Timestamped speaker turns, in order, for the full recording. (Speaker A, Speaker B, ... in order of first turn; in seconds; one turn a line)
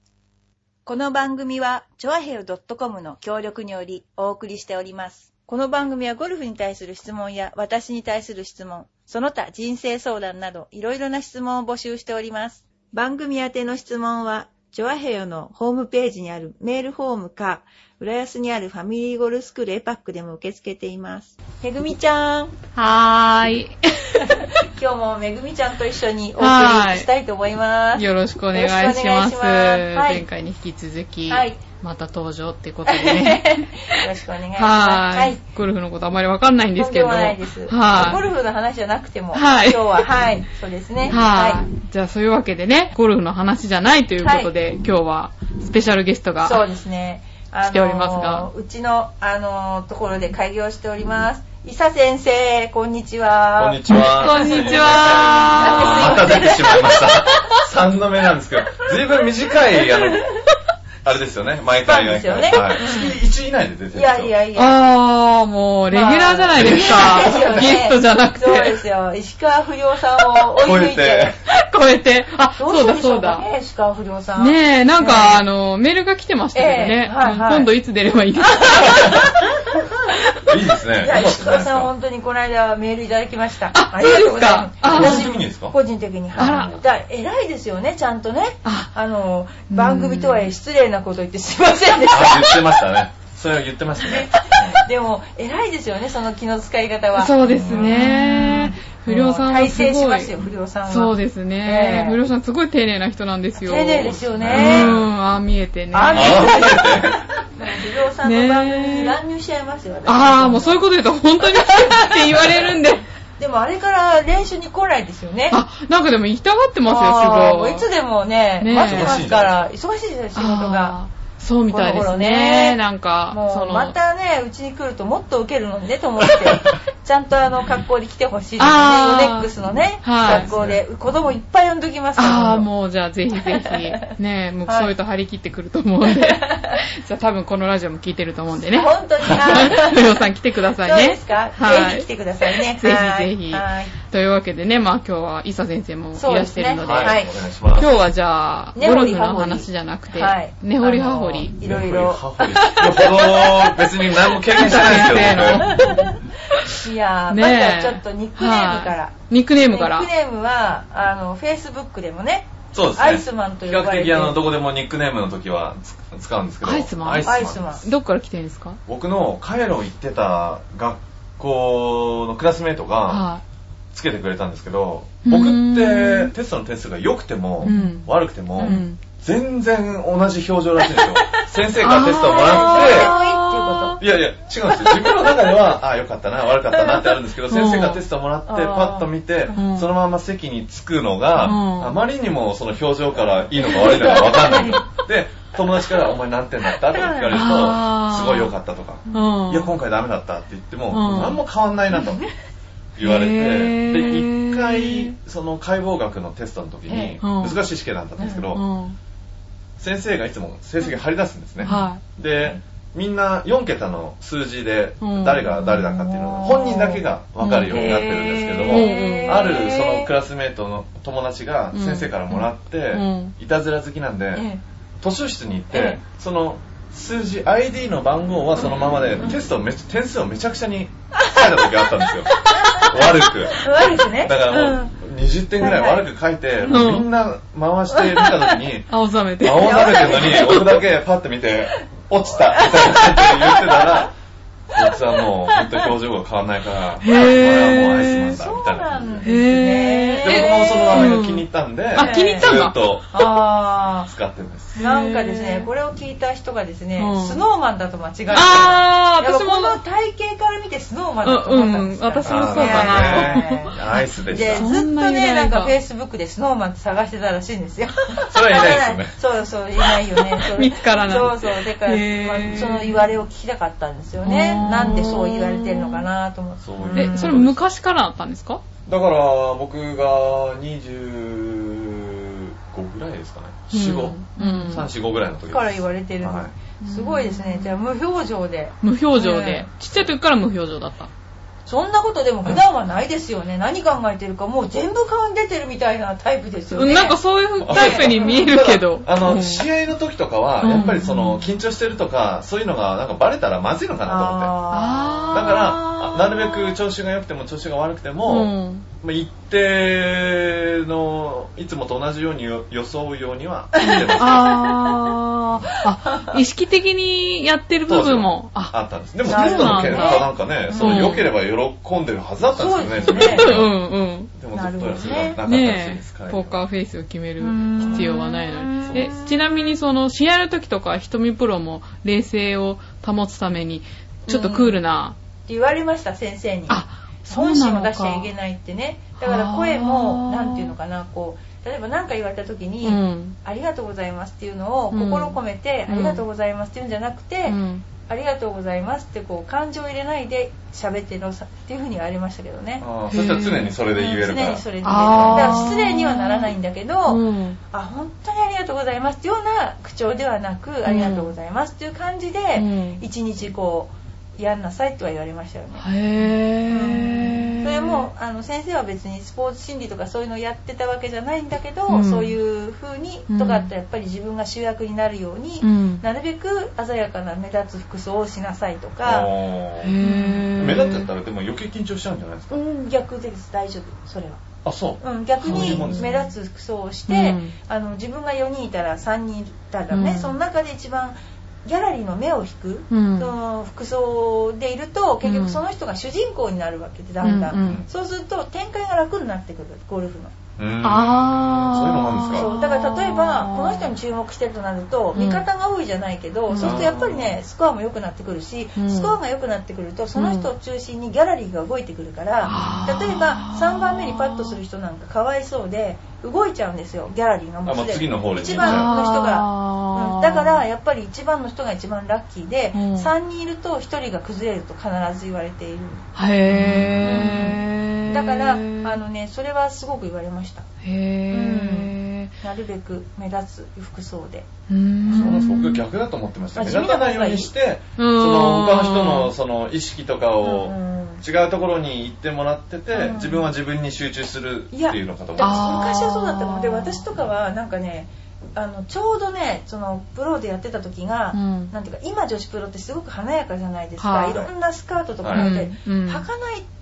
Speaker A: 0.8-22.5
Speaker B: 22.7-24.4
Speaker A: 24.2-30.2
Speaker B: 26.4-27.1
Speaker B: 27.9-38.2
Speaker A: 31.3-31.6
Speaker A: 32.9-35.4
Speaker A: 36.8-41.6
Speaker B: 39.3-40.1
Speaker B: 41.1-46.6
Speaker A: 44.2-44.5
Speaker A: 46.4-57.6
Speaker B: 47.6-48.5
Speaker C: 53.6-60.3
Speaker B: 53.9-56.3
Speaker A: 59.8-60.5
Speaker C: 61.0-64.3
Speaker A: 61.8-63.2
Speaker A: 63.9-64.8
Speaker B: 64.5-68.8
Speaker A: 65.9-71.3
Speaker C: 66.6-67.1
Speaker C: 70.6-71.4
Speaker B: 71.5-73.5
Speaker A: 72.6-75.4
Speaker B: 74.4-79.4
Speaker A: 76.5-77.7
Speaker A: 78.4-80.2
Speaker C: 78.9-79.3
Speaker C: 80.4-81.9
Speaker A: 81.0-92.8
Speaker B: 83.7-85.4
Speaker C: 84.9-85.7
Speaker C: 86.3-86.8
Speaker B: 86.4-86.8
Speaker B: 88.6-88.9
Speaker B: 89.7-90.5
Speaker C: 92.1-94.8
Speaker A: 94.0-102.2
Speaker B: 97.1-100.3
Speaker C: 97.4-98.1
Speaker B: 100.9-106.5
Speaker A: 103.6-105.0
Speaker C: 104.0-105.1
Speaker A: 105.9-110.8
Speaker C: 106.1-107.2
Speaker B: 108.2-109.2
Speaker B: 110.0-113.0
Speaker A: 111.4-112.7
Speaker A: 113.4-115.6
Speaker B: 115.5-117.8
Speaker A: 116.8-121.0
Speaker B: 118.6-119.3
Speaker C: 118.7-119.6
Speaker B: 120.3-124.0
Speaker A: 121.7-122.8
Speaker A: 123.3-132.7
Speaker B: 128.6-129.5
Speaker B: 130.0-130.5
Speaker C: 130.2-130.8
Speaker B: 132.2-151.5
Speaker A: 133.4-134.1
Speaker A: 134.7-134.9
Speaker A: 136.0-136.8
Speaker A: 138.5-140.3
Speaker A: 140.8-143.9
Speaker A: 146.2-147.3
Speaker C: 146.8-147.9
Speaker A: 148.8-154.1
Speaker C: 151.6-155.9
Speaker B: 154.5-156.8
Speaker A: 154.7-164.4
Speaker B: 157.3-160.1
Speaker C: 162.7-167.8
Speaker B: 166.6-168.8
Speaker A: 167.2-167.9
Speaker C: 168.9-173.2
Speaker B: 173.1-173.4
Speaker C: 173.9-183.1
Speaker B: 175.2-176.3
Speaker A: 177.6-178.0
Speaker B: 177.6-179.0
Speaker A: 178.6-178.8
Speaker A: 181.0-184.0
Speaker B: 181.8-184.0
Speaker C: 184.0-202.2
Speaker A: 184.8-185.5
Speaker B: 187.5-188.0
Speaker A: 188.5-189.7
Speaker B: 189.5-189.9
Speaker B: 191.4-192.0
Speaker A: 193.6-194.9
Speaker A: 196.9-197.6
Speaker B: 197.3-198.5
Speaker B: 199.1-199.7
Speaker B: 200.9-201.4
Speaker A: 202.0-202.3
Speaker C: 202.9-208.6
Speaker B: 203.0-205.1
Speaker A: 206.9-207.2
Speaker B: 207.2-207.6
Speaker A: 208.2-208.4
Speaker B: 208.5-209.0
Speaker C: 209.8-224.4
Speaker A: 211.6-211.9
Speaker B: 211.6-212.0
Speaker B: 215.0-216.1
Speaker A: 216.1-217.0
Speaker B: 217.4-218.0
Speaker A: 217.7-220.1
Speaker B: 218.7-219.6
Speaker B: 221.7-223.3
Speaker A: 224.3-224.6
Speaker C: 225.0-244.1
Speaker A: 225.7-226.0
Speaker A: 232.0-234.9
Speaker A: 235.6-236.1
Speaker B: 236.6-237.1
Speaker A: 237.9-238.2
Speaker B: 238.9-240.8
Speaker A: 239.6-240.7
Speaker A: 242.3-244.1
Speaker C: 244.7-249.3
Speaker A: 245.5-245.9
Speaker B: 247.0-248.4
Speaker A: 248.2-251.2
Speaker B: 249.2-253.3
Speaker C: 250.2-253.1
Speaker A: 251.9-254.1
Speaker C: 254.1-254.8
Speaker B: 254.7-255.7
Speaker A: 254.8-263.7
Speaker B: 257.0-257.4
Speaker B: 258.3-259.8
Speaker B: 261.2-265.7
Speaker C: 262.2-264.7
Speaker A: 264.3-277.5
Speaker C: 268.2-269.1
Speaker B: 269.9-273.1
Speaker B: 274.2-276.1
Speaker C: 276.6-277.6
Speaker B: 276.9-278.6
Speaker C: 278.9-286.5
Speaker B: 283.7-284.9
Speaker A: 284.4-284.8
Speaker A: 285.4-289.7
Speaker B: 286.8-287.8
Speaker B: 288.8-291.1
Speaker A: 291.6-298.4
Speaker B: 296.7-299.7
Speaker C: 297.6-304.5
Speaker B: 300.6-301.4
Speaker A: 304.0-305.6
Speaker B: 304.7-306.8
Speaker C: 305.3-314.6
Speaker B: 308.3-308.9
Speaker A: 313.8-315.0
Speaker B: 313.9-321.3
Speaker A: 316.1-316.3
Speaker C: 317.9-323.8
Speaker A: 319.2-321.2
Speaker A: 322.5-323.6
Speaker B: 323.1-324.3
Speaker C: 324.3-326.6
Speaker A: 324.5-325.4
Speaker B: 325.4-335.1
Speaker A: 327.4-329.8
Speaker C: 327.8-328.1
Speaker C: 328.9-329.1
Speaker A: 334.3-334.8
Speaker A: 335.5-352.8
Speaker B: 336.7-338.3
Speaker B: 339.2-340.7
Speaker B: 342.8-343.4
Speaker B: 344.9-346.2
Speaker B: 347.5-347.8
Speaker C: 352.8-355.7
Speaker B: 353.1-353.8
Speaker A: 353.9-379.3
Speaker B: 354.8-356.5
Speaker B: 357.1-357.6
Speaker B: 360.8-361.3
Speaker B: 362.6-363.0
Speaker B: 365.8-368.1
Speaker B: 371.9-372.3
Speaker B: 373.3-373.7
Speaker B: 375.6-376.0
Speaker C: 379.0-382.5
Speaker B: 379.8-381.1
Speaker A: 380.0-380.4
Speaker A: 382.5-384.4
Speaker C: 384.6-386.2
Speaker A: 385.0-400.3
Speaker B: 385.4-386.2
Speaker B: 387.1-387.5
Speaker B: 389.9-390.4
Speaker B: 392.9-393.3
Speaker B: 395.2-395.6
Speaker B: 397.2-397.8
Speaker C: 397.5-397.9
Speaker C: 400.6-402.5
Speaker B: 400.8-403.9
Speaker A: 402.3-426.1
Speaker B: 405.1-405.4
Speaker B: 406.5-406.9
Speaker C: 406.6-407.4
Speaker B: 408.8-409.2
Speaker B: 410.1-410.5
Speaker C: 412.4-412.9
Speaker B: 412.4-414.6
Speaker C: 417.6-418.9
Speaker B: 418.6-420.6
Speaker B: 422.7-423.1
Speaker B: 426.1-428.9
Speaker C: 426.5-427.5
Speaker A: 427.0-430.6
Speaker B: 430.8-432.3
Speaker A: 431.3-434.5
Speaker B: 434.7-435.8
Speaker A: 435.0-435.4
Speaker C: 435.1-445.6
Speaker A: 436.5-437.5
Speaker B: 438.0-439.3
Speaker A: 440.4-441.2
Speaker A: 442.9-443.5
Speaker A: 444.7-456.7
Speaker B: 445.4-447.0
Speaker B: 451.3-451.7
Speaker B: 454.0-454.5
Speaker C: 455.2-455.5
Speaker B: 455.3-456.3